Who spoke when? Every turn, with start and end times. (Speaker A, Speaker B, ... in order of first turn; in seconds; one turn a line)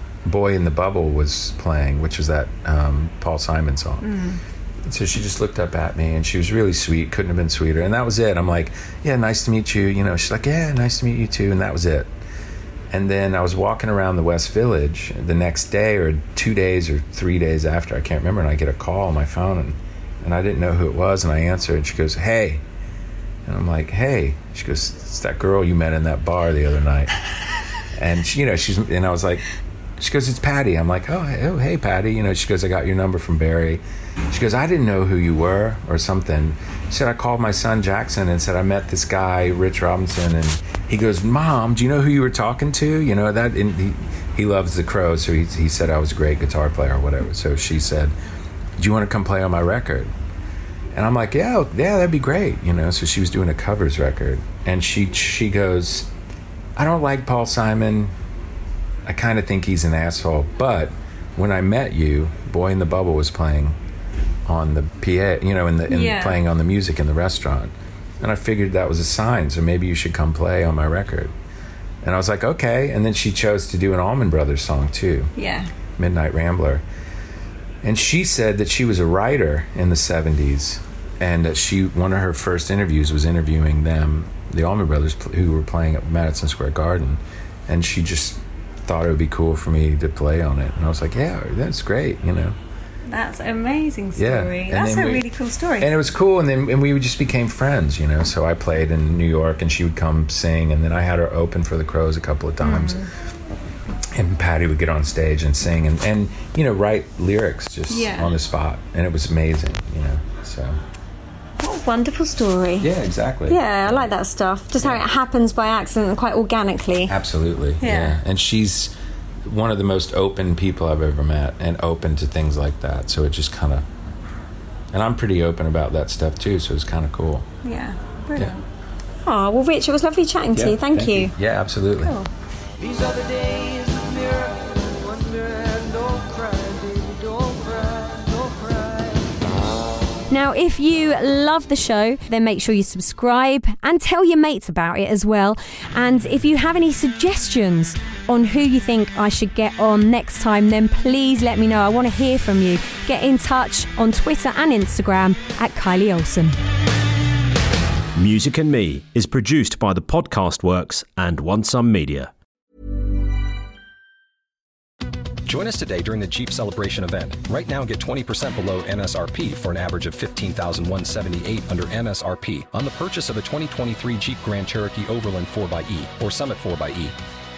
Speaker A: 0.2-4.2
Speaker B: 4.0-4.4
Speaker A: 4.8-12.1
Speaker A: 12.9-22.6
Speaker A: 23.4-27.1
Speaker A: 27.9-29.4
Speaker A: 30.0-48.1
Speaker A: 48.8-50.1
Speaker A: 50.9-56.1
Speaker A: 56.8-58.1
Speaker A: 59.0-63.8
Speaker A: 64.5-71.3
Speaker B: 65.9-66.4
Speaker A: 72.0-75.3
Speaker B: 75.4-75.7
Speaker A: 76.0-76.8
Speaker A: 77.8-92.6
Speaker B: 93.1-95.9
Speaker A: 94.2-95.2
Speaker A: 95.8-103.0
Speaker B: 102.6-103.1
Speaker A: 104.1-110.8
Speaker B: 107.9-108.3
Speaker B: 111.6-112.9
Speaker A: 112.8-114.1
Speaker B: 113.5-117.1
Speaker A: 114.8-115.0
Speaker A: 117.0-118.9
Speaker B: 117.8-118.2
Speaker A: 119.4-123.9
Speaker A: 124.9-127.5
Speaker B: 127.6-128.6
Speaker B: 129.2-131.3
Speaker A: 130.5-132.2
Speaker B: 132.0-132.3
Speaker C: 137.4-138.8
Speaker C: 140.4-141.1
Speaker C: 141.7-145.4
Speaker B: 142.2-144.7
Speaker C: 146.0-147.8
Speaker C: 148.5-149.5
Speaker C: 151.7-152.0
Speaker C: 152.6-153.5
Speaker B: 154.0-154.4
Speaker C: 154.3-155.2
Speaker D: 158.2-162.3
Speaker E: 165.4-177.2